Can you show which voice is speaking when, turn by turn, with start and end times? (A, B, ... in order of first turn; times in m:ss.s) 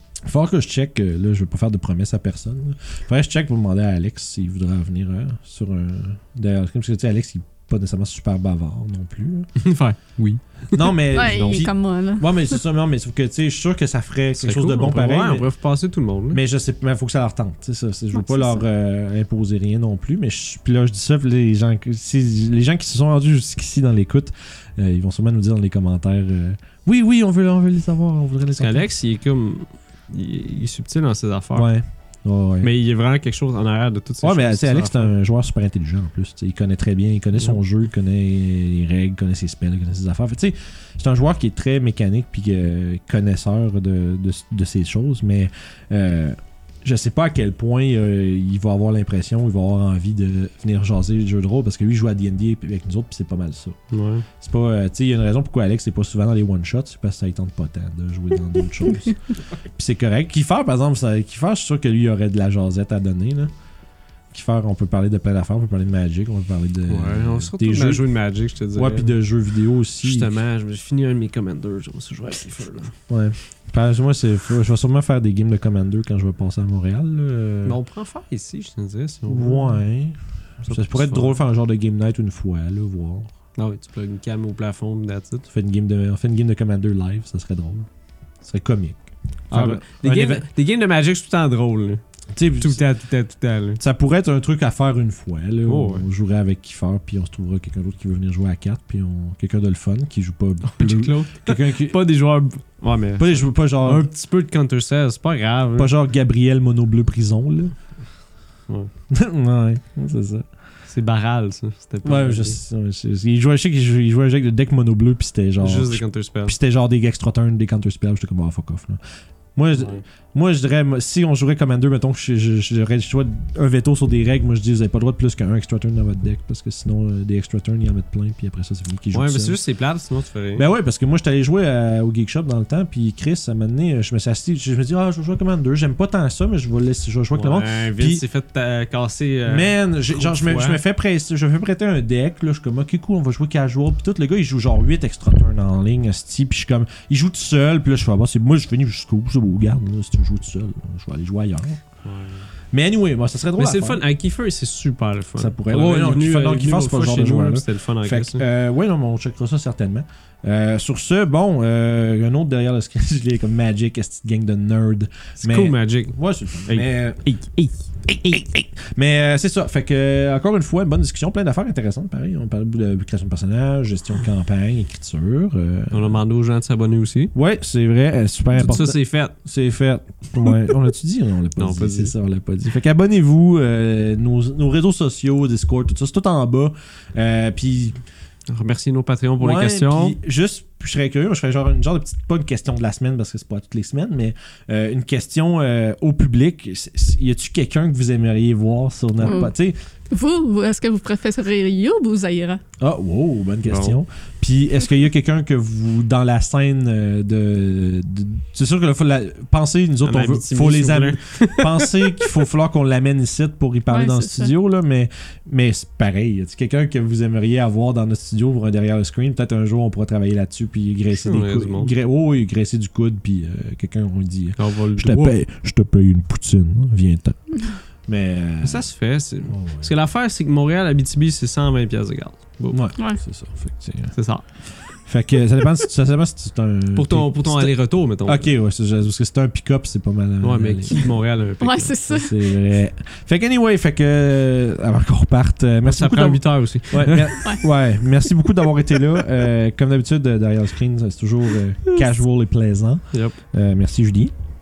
0:00.2-0:09.5 A
0:09.6-0:10.9 B
0:10.7-0:15.5 A
0:11.1-0:12.6 C
0:14.4-0:16.4 B
0:16.3-0:28.8 A
0:18.1-0:18.6 C
0:28.6-0:31.7 B
0:31.5-0:32.7 A
0:32.6-0:35.1 B
0:34.2-0:53.8 A
0:53.9-0:54.3 B
0:54.4-0:59.2 A
0:59.7-1:03.5 A
1:04.3-1:08.0 A
1:06.9-1:09.1 B
1:08.7-1:10.3 A
1:10.0-1:12.9 B
1:13.1-1:17.8 A
1:17.6-1:19.8 B
1:19.3-1:20.2 A
1:20.6-1:21.4 B
1:20.7-1:23.3 A
1:23.6-1:25.4 B
1:25.5-1:27.9 A
1:28.4-1:30.4 A
1:29.5-1:32.0 B
1:32.3-1:32.8 A
1:32.6-1:33.8 B
1:33.8-1:42.0 A
1:35.6-1:36.0 B
1:40.7-1:45.9 B
1:43.2-1:44.1 A
1:45.8-1:47.7 A
1:49.1-1:50.4 A
1:50.9-1:52.6 B
1:52.0-1:59.0 A
1:55.6-1:56.6 B
1:59.6-2:09.6 A
1:59.8-2:00.0 B
2:09.1-2:10.6 B
2:10.6-2:18.2 A
2:17.3-2:20.8 B
2:19.5-2:31.8 A
2:32.0-2:32.5 B
2:32.7-2:34.0 A
2:33.6-2:38.4 B
2:35.4-2:47.2 A
2:45.4-2:47.8 B
2:48.0-2:56.2 A
2:55.9-2:57.3 B
2:57.3-3:08.0 A
2:58.5-2:59.3 B
3:01.6-3:02.1 B
3:08.5-3:10.2 B
3:09.4-3:19.8 A
3:19.2-3:19.5 C
3:20.1-3:22.6 C
3:22.8-3:47.4 A
3:23.6-3:24.0 B
3:30.0-3:32.4 B
3:33.9-3:34.5 C
3:41.1-3:41.9 B
3:44.6-3:45.3 B
3:48.0-3:48.8 A
3:48.6-3:52.8 B
3:49.5-3:49.9 A
3:52.7-3:54.1 A
3:54.1-3:54.4 B
3:55.0-4:01.1 A
3:56.9-3:58.5 B
4:00.4-4:02.0 B
4:01.6-4:02.4 C
4:02.1-4:14.3 A
4:05.8-4:07.5 B